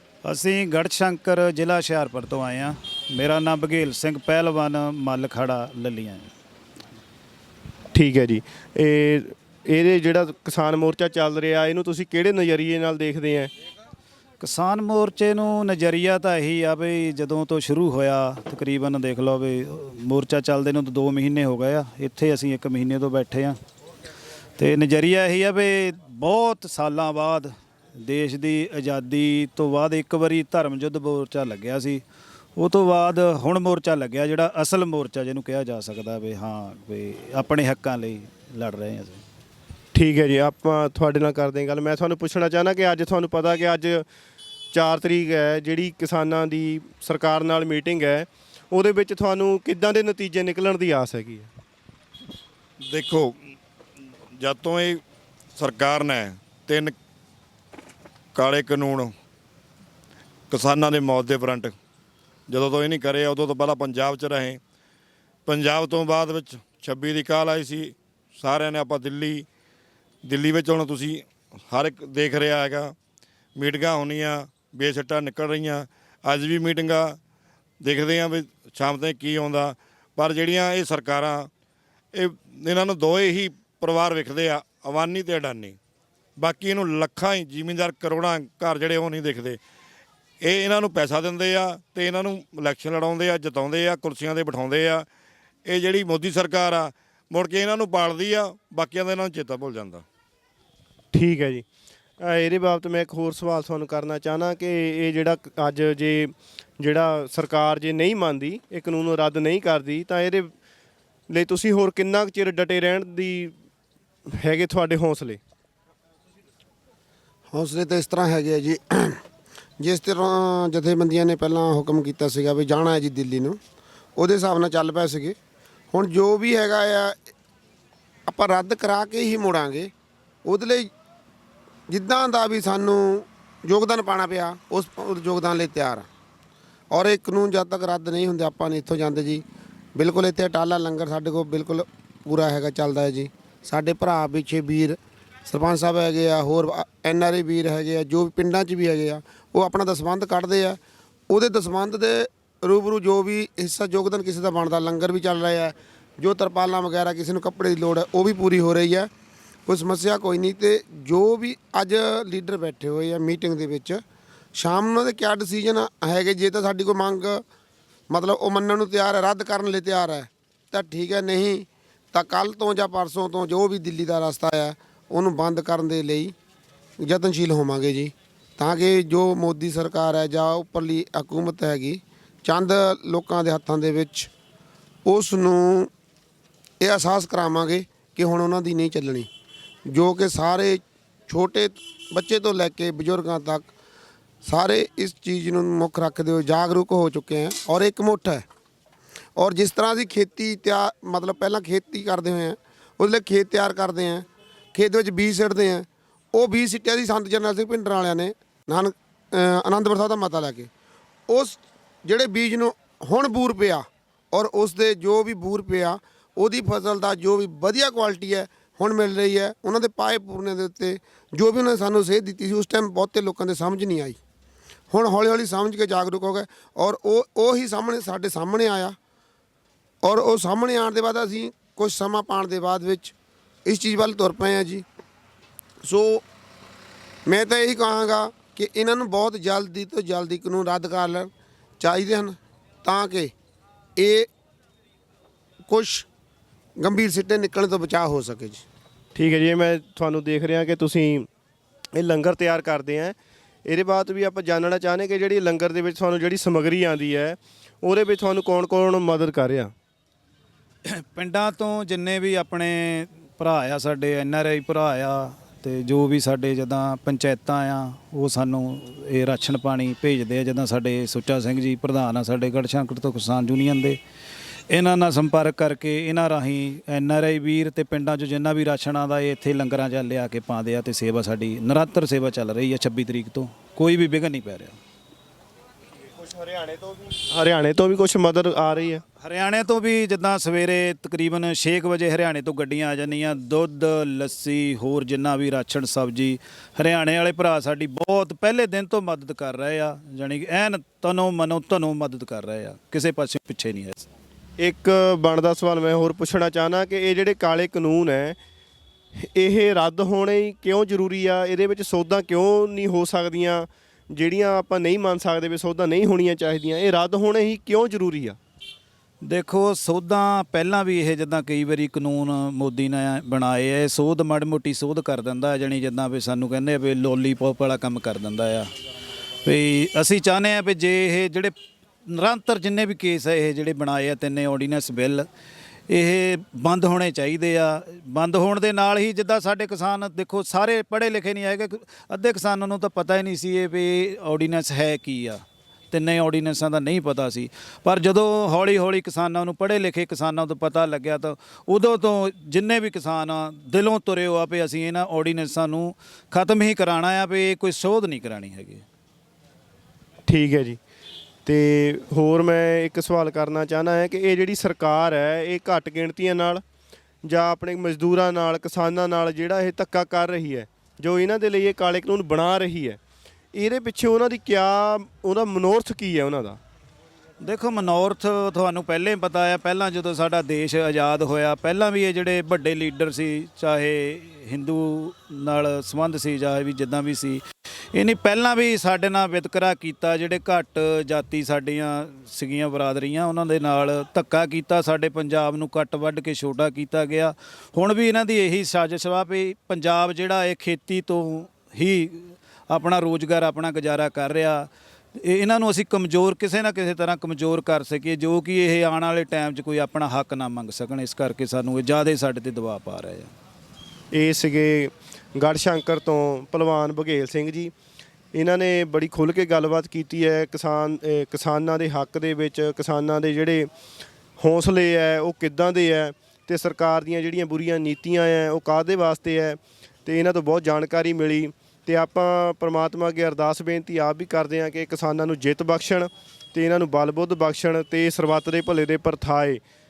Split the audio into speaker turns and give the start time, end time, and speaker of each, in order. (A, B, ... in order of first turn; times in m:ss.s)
0:00.2-0:06.3 A
0:07.9-0:13.5 B
0:14.4-0:23.6 A
0:24.6-0:32.0 A
0:32.6-0:39.2 A
0:39.9-0:44.0 B
0:44.7-0:51.5 B
0:52.9-0:53.3 C
0:54.4-0:55.0 C
0:55.6-0:56.9 C
0:58.3-0:59.1 C
1:00.5-1:01.7 C
1:02.5-1:04.6 C
1:05.4-1:09.5 C
1:10.2-1:12.9 C
1:13.6-1:17.2 C
1:17.8-1:21.5 C
1:22.1-1:25.8 C
1:26.4-1:29.6 C
1:30.4-1:35.1 C
1:35.6-1:40.0 C
1:41.1-1:41.6 B
1:42.2-1:50.5 B
1:51.3-1:53.5 B
1:54.3-1:55.4 B
1:57.5-1:59.2 D
1:59.8-2:03.6 D
2:04.2-2:05.4 D
2:05.9-2:07.2 D
2:08.3-2:09.9 D
2:10.4-2:10.9 D
2:11.9-2:16.0 D
2:16.9-2:19.4 D
2:20.0-2:30.8 D
2:31.3-2:39.1 D
2:39.6-2:44.0 D
2:44.5-2:47.4 D
2:48.1-2:56.3 D
2:57.0-3:04.3 D
3:05.0-3:05.9 D
3:06.8-3:09.3 D
3:09.9-3:13.7 D
3:14.4-3:18.4 D
3:19.4-3:30.7 D
3:31.3-3:44.2 D
3:44.9-3:49.0 D
3:50.0-3:53.1 D
3:53.6-3:54.8 D
3:55.8-3:56.2 D
3:57.3-4:03.3 D
4:04.0-4:04.3 D
4:05.7-4:06.1 D
4:06.8-4:08.6 D
4:09.1-4:11.3 B
4:11.9-4:19.7 B
4:20.8-4:34.0 A
4:34.7-4:44.8 A
4:46.2-4:49.0 B
4:49.2-5:04.0 A
5:04.6-5:08.4 B
5:09.1-5:18.4 B
5:19.2-5:28.7 A
5:29.4-5:31.5 A
5:32.0-5:35.3 A
5:35.9-5:58.8 A
6:00.3-6:00.8 B
6:01.4-6:06.6 B
6:07.2-6:13.0 B
6:13.5-6:16.6 B
6:17.4-6:53.3 A
6:54.1-6:57.7 B
6:58.3-7:03.7 B
7:04.4-7:19.6 B